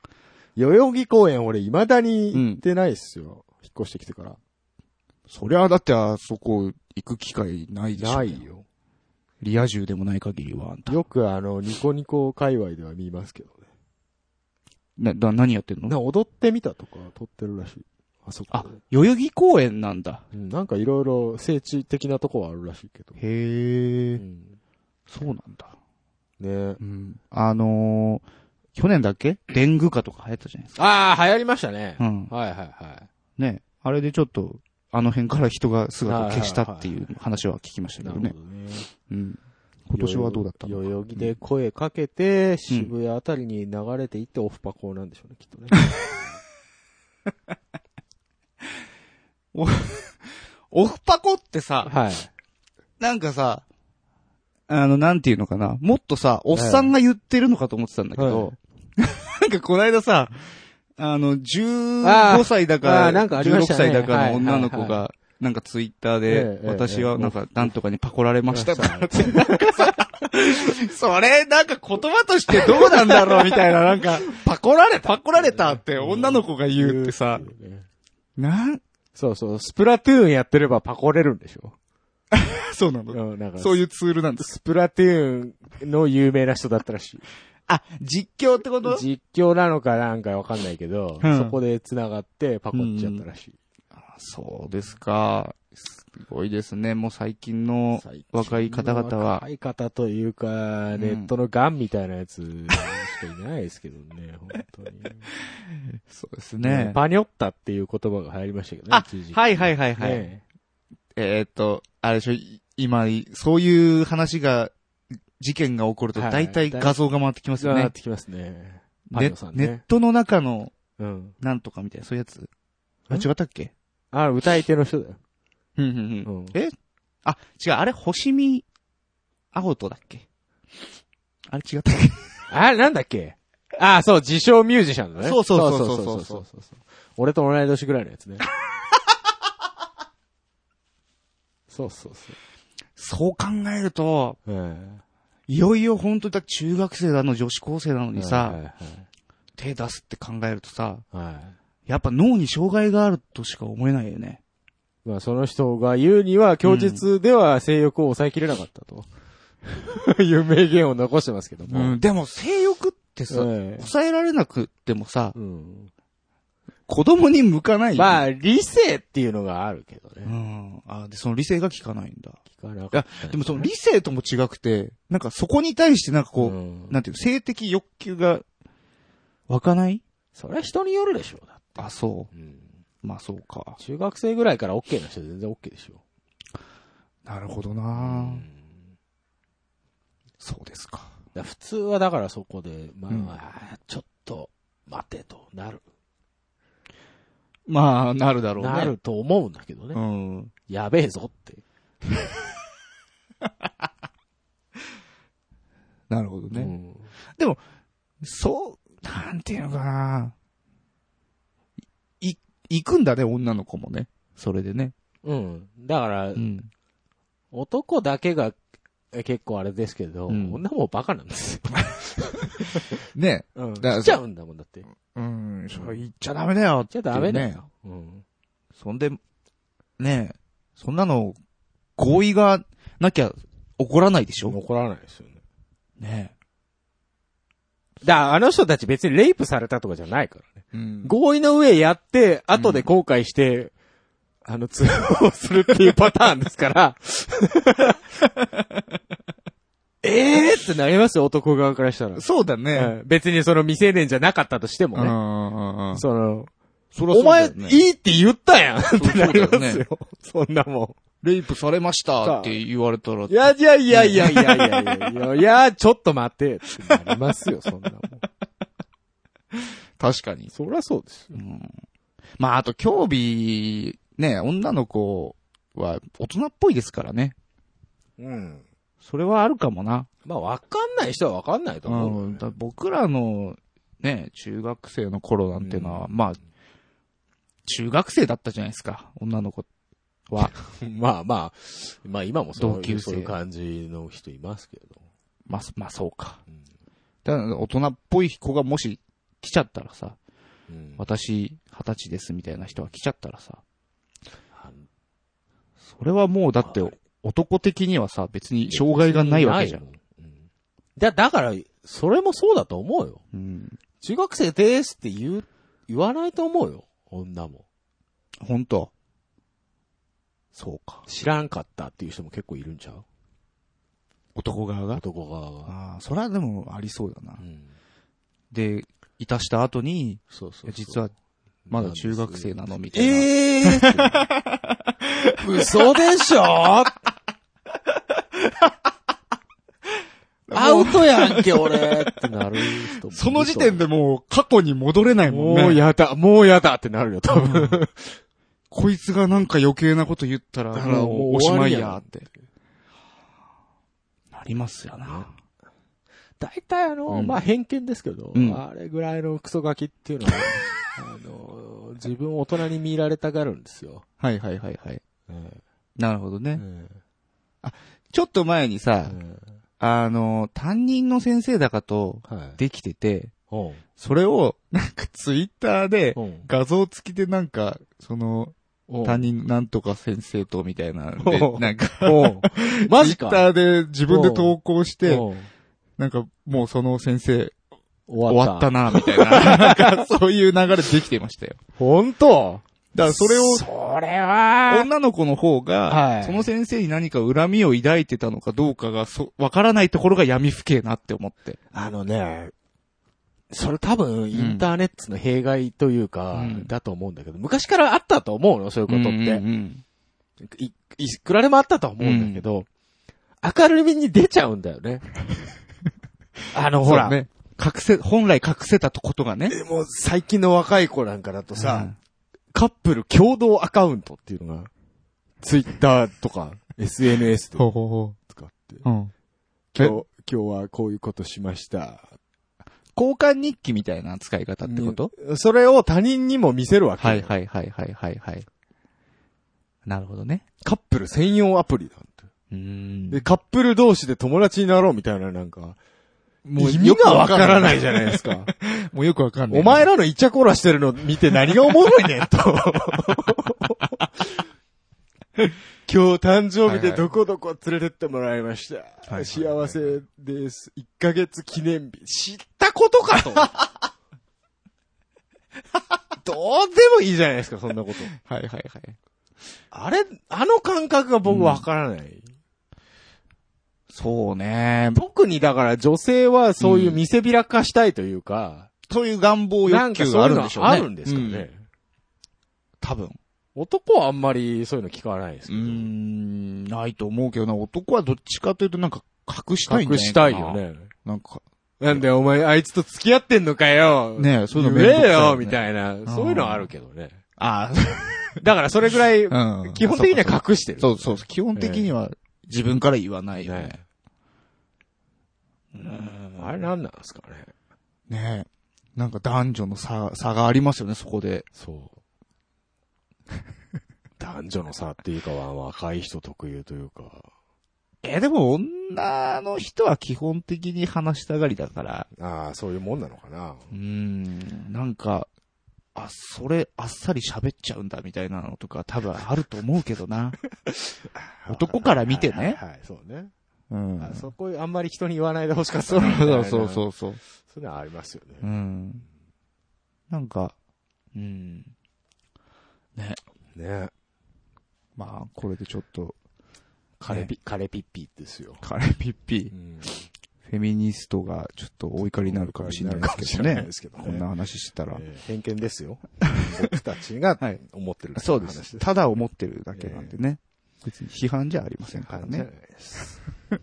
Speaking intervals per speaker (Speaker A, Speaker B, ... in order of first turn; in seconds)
Speaker A: 0.6-4.4, 8.0-8.7, 10.9-13.6, 15.9-18.8, 20.3-23.2, 24.2-24.6, 26.4-26.8, 30.8-33.1, 36.1-37.1, 38.0-38.9, 39.9-46.2, 51.9-52.3, 56.5-57.0, 58.2-58.5, 62.0-65.0, 66.3-67.7, 68.5-70.1, 72.5-77.9, 79.2-81.8, 83.1-83.8, 84.4-87.3, 88.8-93.6, 98.0-105.2, 106.6-110.4, 116.2-117.0, 117.6-119.8, 121.0-121.4, 124.1-125.2, 126.2-126.6, 132.5-138.5, 141.7-142.4, 144.5-145.0, 148.2-149.1, 151.1-151.6, 155.1-159.1, 159.7-162.0, 163.3-163.9, 165.3-165.9, 167.9-170.3, 172.5-173.7, 176.4-177.0, 180.3-182.7, 183.8-186.0, 187.9-188.8, 191.3-195.8, 198.6-200.0, 200.7-201.6, 206.5-207.1, 215.2-216.5, 217.5-218.6, 219.1-222.1, 223.6-224.9, 225.7-226.0, 226.9-228.2, 234.5-235.4, 238.0-243.7, 244.4-248.0, 250.0-255.2, 255.9-256.5, 257.1-261.0, 262.2-262.6, 263.3-268.2, 270.5-271.4, 278.2-278.6, 280.2-282.5, 285.6-286.1, 290.5-295.0, 300.7-301.1, 304.5-304.9, 306.6-306.9, 308.7-310.5, 311.0-313.2, 314.0-317.6, 321.1-323.1, 324.9-325.7, 327.4-327.7, 330.3-331.1, 331.7-334.3, 335.4-337.0, 340.5-343.9, 345.3-348.1, 350.7-352.4, 356.4-364.0, 365.3-365.6, 366.6-367.0, 369.1-369.5, 372.3-372.6, 373.5-373.8, 376.1-376.5, 378.9-379.3, 381.2-383.5, 384.1-385.5, 388.1-390.0, 391.8-394.9, 395.9-396.5, 401.7-402.5, 403.5-409.4, 410.4-412.7, 413.4-415.1, 416.5-417.2, 419.5-421.9, 422.5-424.7, 425.4-427.7, 428.3-428.9, 429.7-432.1, 434.6-437.3, 440.6-442.3, 443.1-445.8, 446.6-448.5, 449.5-453.8, 455.9-463.5, 466.2-468.1, 469.7-472.3, 474.9-478.7, 479.6-481.6, 483.6-485.9, 489.7-490.9, 491.8-497.2, 498.4-501.9, 503.4-503.8, 506.4-507.5, 511.6-512.0, 514.2-517.3, 522.2-523.7, 531.4-533.3, 534.0-536.9, 537.4-538.5, 543.5-543.9, 547.0-548.6, 549.5-549.9, 552.0-554.3, 554.9-558.9, 559.7-560.1, 561.9-563.2
Speaker B: 2.3-2.6, 5.3-8.4, 9.4-11.0, 15.0-16.0, 18.5-20.2, 23.2-24.2, 25.1-25.7, 26.8-28.2, 28.8-30.8, 32.0-32.3, 33.4-38.4, 39.1-41.4, 49.5-51.9, 53.0-53.6, 54.7-74.5, 75.0-77.5, 78.4-78.8, 82.3-84.5, 87.7-89.1, 91.2-91.6, 92.7-93.2, 94.1-99.4, 101.0-101.3, 105.5-107.0, 108.9-110.3, 111.2-114.7, 115.4-117.9, 119.1-120.7, 121.4-122.5, 123.1-123.7, 125.8-126.7, 127.2-128.7, 129.5-130.3, 131.5-132.3, 135.2-136.4, 143.0-144.4, 145.5-148.6, 149.6-151.1, 151.9-154.4, 156.6-157.0, 161.7-165.3, 166.9-168.2, 170.2-172.4, 172.9-178.4, 179.5-180.0, 181.8-182.3, 183.0-183.8, 187.3-188.5, 190.4-191.1, 193.1-193.3, 197.7-198.9, 199.9-200.5, 206.1-206.7, 207.3-207.6, 208.2-210.3, 212.2-214.9, 216.3-216.7, 220.3-220.6, 221.8-224.2, 225.1-227.6, 228.8-229.2, 230.0-231.4, 232.0-234.6, 236.0-236.3, 240.7-241.2, 242.6-242.9, 252.2-252.9, 254.9-256.0, 256.9-257.8, 259.0-259.9, 261.2-265.2, 266.9-267.2, 270.0-270.5, 271.3-271.8, 272.4-277.4, 279.0-280.1, 281.9-286.4, 287.6-289.7, 290.3-290.5, 292.6-293.4, 295.5-296.4, 297.2-300.2, 301.0-303.6, 305.9-309.8, 313.3-313.8, 318.4-318.9, 320.6-321.1, 324.4-325.0, 325.7-327.4, 328.5-331.1, 331.7-336.0, 340.5-342.1, 342.9-345.8, 347.3-347.8, 348.7-352.2, 354.3-355.3, 357.1-357.4, 358.3-358.6, 360.3-360.5, 364.2-365.0, 366.0-366.6, 367.6-369.2, 369.8-373.3, 374.0-385.3, 386.0-387.6, 388.3-391.6, 392.9-393.7, 394.7-401.6, 404.3-404.7, 406.3-406.7, 408.9-409.8, 412.0-412.5, 416.8-419.6, 421.5-422.0, 427.6-428.2, 428.8-429.1, 432.9-435.1, 437.0-438.5, 439.9-440.4, 442.5-443.3, 446.4-449.9, 456.7-457.1, 459.1-460.0, 463.2-463.7, 468.2-469.0, 471.2-471.6, 473.9-475.0, 476.6-477.0, 478.9-481.5, 482.8-483.2, 485.5-492.1, 494.2-496.7, 497.4-498.4, 499.3-503.8, 505.8-506.7, 508.1-511.5, 518.0-522.1, 523.7-525.3, 526.0-530.4, 531.5-532.6, 533.7-534.3, 535.8-537.2, 538.4-539.0, 540.1-540.5, 541.1-541.7, 545.0-546.2, 547.1-547.3, 548.6-549.9, 550.4-555.0, 558.2-562.5